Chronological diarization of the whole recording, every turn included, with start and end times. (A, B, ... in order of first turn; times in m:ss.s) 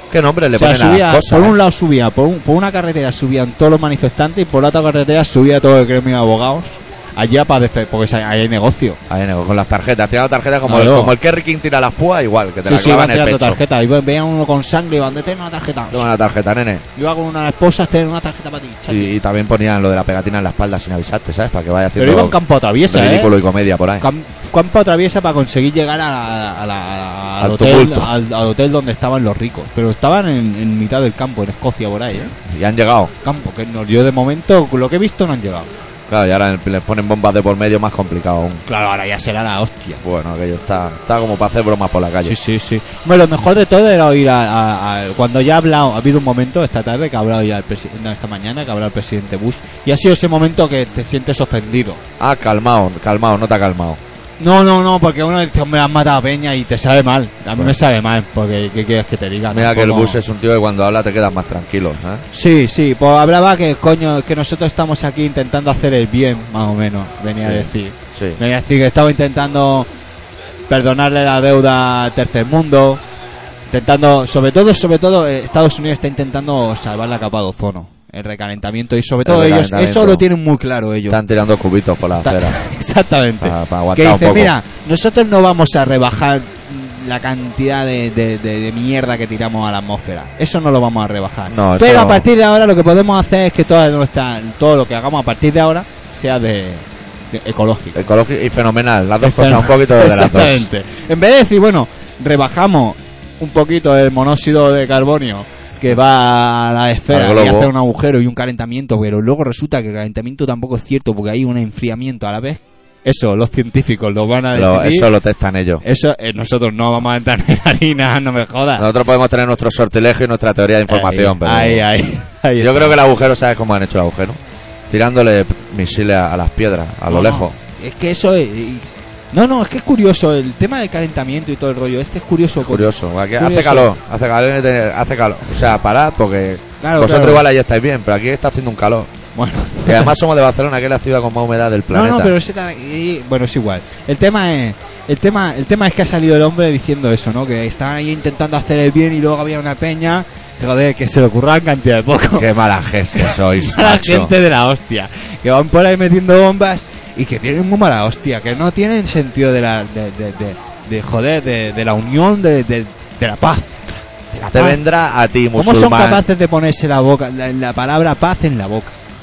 0:00.1-0:01.6 A
0:00.6-0:09.0 B
0:09.1-0:13.6 A
0:10.7-0:11.1 B
0:12.6-0:16.1 B
0:15.9-0:16.9 A
0:17.0-0:19.1 B
0:18.9-0:24.1 A
0:22.0-0:23.3 B
0:24.0-0:32.4 B
0:27.4-0:28.1 A
0:32.4-0:33.1 A
0:33.2-0:35.7 B
0:36.1-0:38.6 A
0:38.7-0:40.0 B
0:40.0-0:42.4 A
0:42.2-0:52.0 B
0:52.2-0:54.0 A
0:54.4-1:00.2 B
0:59.5-1:02.2 A
1:02.3-1:09.9 B
1:07.4-1:08.4 A
1:10.7-1:13.0 B
1:13.7-1:21.2 B
1:19.2-1:20.3 A
1:21.1-1:22.6 A
1:22.2-1:38.1 B
1:23.4-1:24.6 A
1:31.5-1:32.3 A
1:38.0-1:40.7 A
1:39.2-1:55.1 B
1:47.1-1:47.7 A
1:54.5-1:55.8 A
1:55.8-1:58.9 B
1:58.8-2:01.9 A
2:00.9-2:03.0 B
2:02.6-2:07.6 A
2:07.1-2:13.9 B
2:12.6-2:19.1 A
2:16.8-2:17.5 B
2:19.4-2:20.1 B
2:19.8-2:22.4 A
2:21.9-2:32.5 B
2:32.4-2:34.3 A
2:33.1-2:44.8 B
2:44.5-2:46.3 A
2:45.5-2:49.0 B